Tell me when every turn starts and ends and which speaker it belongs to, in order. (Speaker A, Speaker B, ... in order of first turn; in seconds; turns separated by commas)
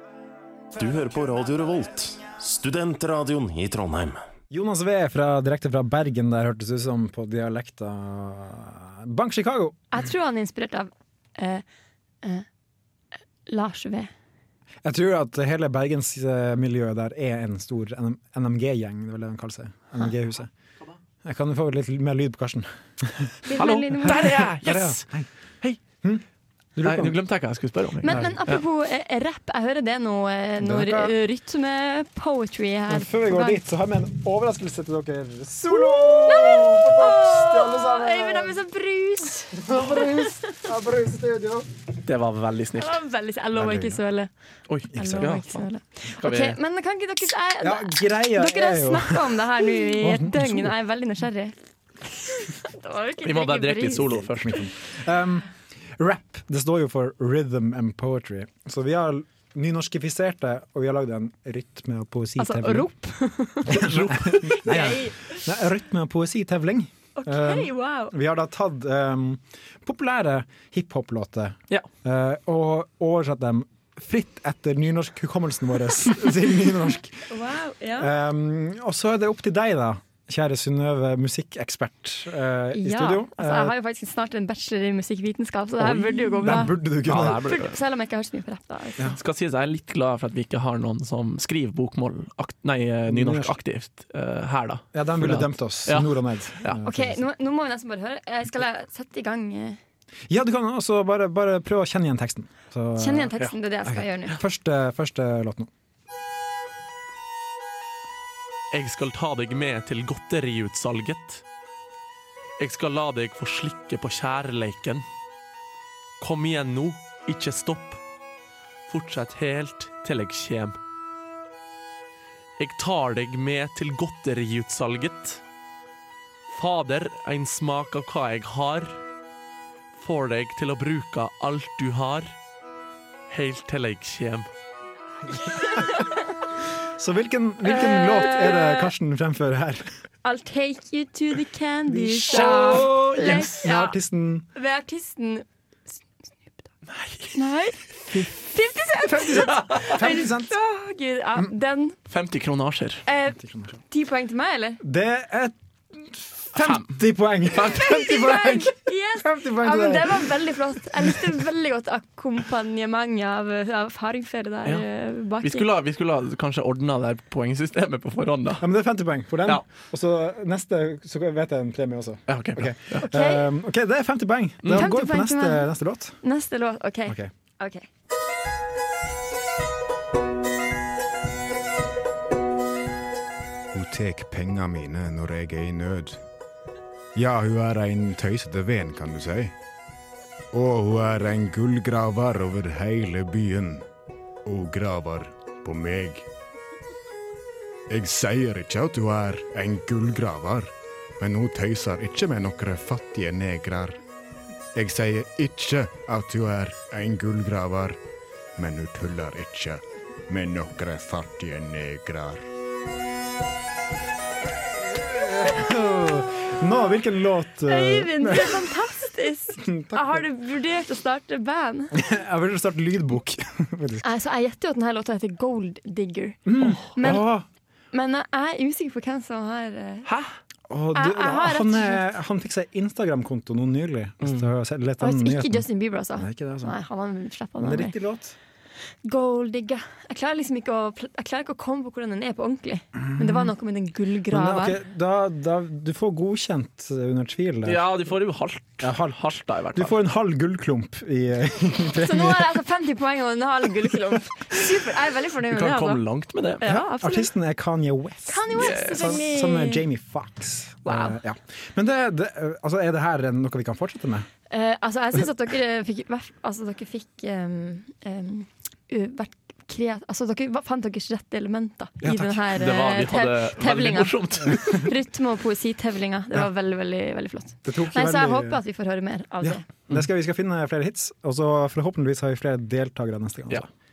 Speaker A: 0.7-4.2, Speaker B: 4.5-9.8, Speaker C: 9.9-11.6, Speaker C: 13.4-14.1, Speaker B: 14.8-20.5, Speaker B: 21.2-23.4, Speaker C: 23.4-24.4, Speaker D: 23.6-25.1, Speaker B: 24.0-25.3, Speaker B: 26.8-27.1, Speaker D: 26.8-28.6, Speaker C: 28.0-33.6, Speaker B: 28.1-28.3, Speaker B: 30.6-31.1, Speaker B: 32.9-38.5, Speaker C: 36.2-40.6, Speaker B: 39.5-41.7, Speaker D: 42.0-43.0, Speaker C: 42.8-44.3, Speaker B: 43.5-44.0, Speaker D: 44.7-46.6, Speaker C: 44.9-54.2, Speaker B: 47.6-50.7, Speaker D: 53.2-54.7, Speaker B: 54.2-62.9, Speaker C: 62.4-63.9, Speaker B: 63.7-77.3, Speaker D: 63.7-64.6, Speaker C: 64.4-65.5, Speaker C: 67.2-68.1, Speaker C: 77.3-78.1, Speaker B: 78.0-83.7, Speaker C: 82.7-89.2, Speaker B: 85.8-87.4, Speaker D: 86.4-87.8, Speaker D: 89.1-96.8, Speaker B: 93.1-93.6, Speaker B: 94.9-97.2, Speaker C: 96.8-99.8, Speaker B: 100.3-105.7, Speaker C: 103.0-104.4, Speaker D: 108.7-111.4, Speaker D: 112.6-115.0, Speaker D: 116.2-118.0, Speaker D: 118.9-120.8, Speaker D: 122.6-125.4, Speaker D: 126.5-129.0, Speaker D: 129.9-132.3, Speaker D: 133.3-134.5, Speaker B: 135.5-136.0, Speaker C: 135.5-136.1, Speaker B: 136.8-139.9, Speaker C: 137.7-138.9, Speaker C: 140.2-143.9, Speaker B: 141.9-144.4, Speaker D: 142.3-143.6, Speaker C: 144.5-145.4, Speaker C: 146.3-146.7, Speaker D: 146.9-147.4, Speaker C: 147.3-151.9, Speaker B: 148.9-150.5, Speaker D: 152.1-153.0, Speaker C: 153.1-153.4, Speaker B: 153.3-153.8, Speaker C: 153.9-154.8, Speaker B: 154.8-160.3, Speaker D: 156.6-156.9, Speaker D: 157.5-157.8, Speaker C: 157.7-165.7, Speaker D: 165.4-168.7, Speaker B: 168.6-176.2, Speaker D: 172.3-173.1, Speaker C: 173.1-173.5, Speaker C: 174.7-175.7, Speaker C: 176.2-177.9, Speaker E: 183.7-186.2, Speaker E: 187.2-189.5, Speaker E: 190.5-193.8, Speaker E: 194.4-196.3, Speaker E: 197.9-204.0, Speaker E: 204.7-208.0, Speaker E: 208.6-212.4, Speaker B: 214.9-218.7, Speaker C: 217.7-222.0, Speaker B: 219.6-220.2, Speaker B: 221.9-224.1, Speaker C: 224.0-226.4, Speaker B: 226.4-227.5, Speaker C: 226.9-227.2, Speaker C: 227.9-230.1, Speaker D: 230.1-230.3, Speaker B: 230.7-236.7, Speaker C: 230.9-232.1, Speaker C: 235.0-237.9, Speaker B: 237.6-238.3, Speaker C: 239.0-244.8, Speaker B: 243.2-243.5, Speaker B: 244.3-248.0, Speaker D: 247.6-249.9, Speaker B: 248.8-252.5, Speaker C: 252.0-256.0, Speaker D: 255.5-256.8, Speaker C: 256.6-257.3, Speaker B: 256.8-264.3, Speaker C: 258.3-259.8, Speaker D: 258.6-259.2, Speaker C: 260.8-261.1, Speaker C: 264.5-279.6, Speaker B: 272.0-272.4, Speaker D: 272.5-274.8, Speaker B: 277.6-278.6, Speaker B: 279.4-283.7